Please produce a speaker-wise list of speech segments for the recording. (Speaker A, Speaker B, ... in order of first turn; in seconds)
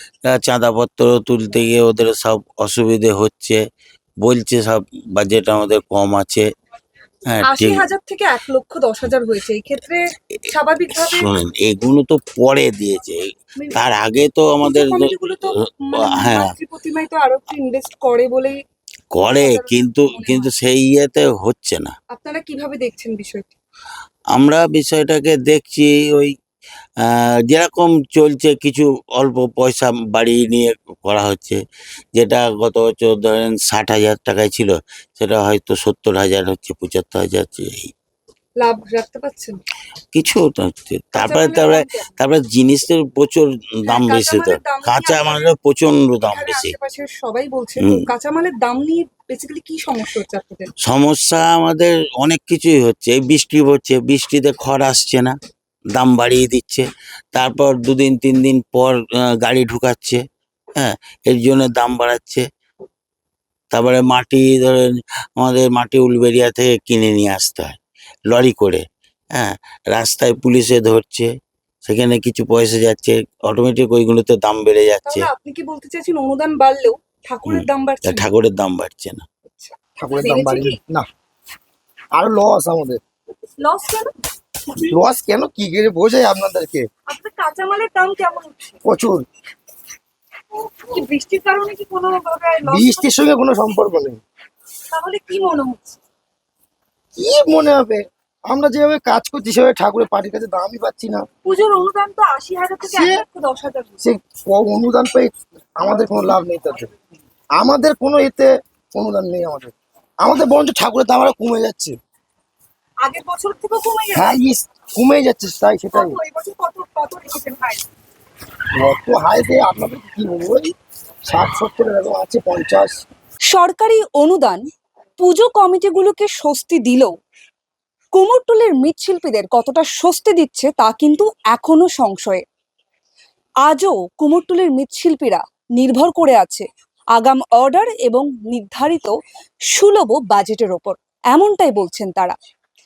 Speaker A: 0.2-3.6, 4.2-6.5, 7.3-7.8, 10.9-15.1, 16.1-16.5, 19.1-21.9, 24.3-26.3, 27.0-31.6, 32.1-37.9, 40.1-46.7, 47.8-48.1, 50.8-55.3, 55.9-56.8, 57.3-60.2, 60.8-62.4, 63.7-67.8, 68.3-68.8, 69.3-71.3, 71.8-75.3, 77.5-79.2
Speaker B: 7.5-11.3, 13.6-13.8, 14.6-18.6, 19.2-20.5, 22.1-23.5, 38.6-39.6, 41.1-42.1, 43.9-45.5, 46.2-50.7, 75.0-78.3, 79.5-80.8, 83.6-84.1, 84.7-84.9, 87.1-88.8, 90.7-93.1, 94.9-96.0, 101.4-104.0, 113.0-114.4, 115.9-117.8, 123.5-124.6, 125.2-127.1, 128.1-132.4, 133.6-136.6, 137.2-139.1, 139.7-142.3
Speaker C: 80.0-81.0, 82.1-83.0, 84.9-86.9, 88.8-89.2, 92.7-94.2, 97.2-101.2, 102.8-103.2, 104.0-106.9, 107.5-111.9, 114.1-116.2, 118.8-120.7, 121.3-122.9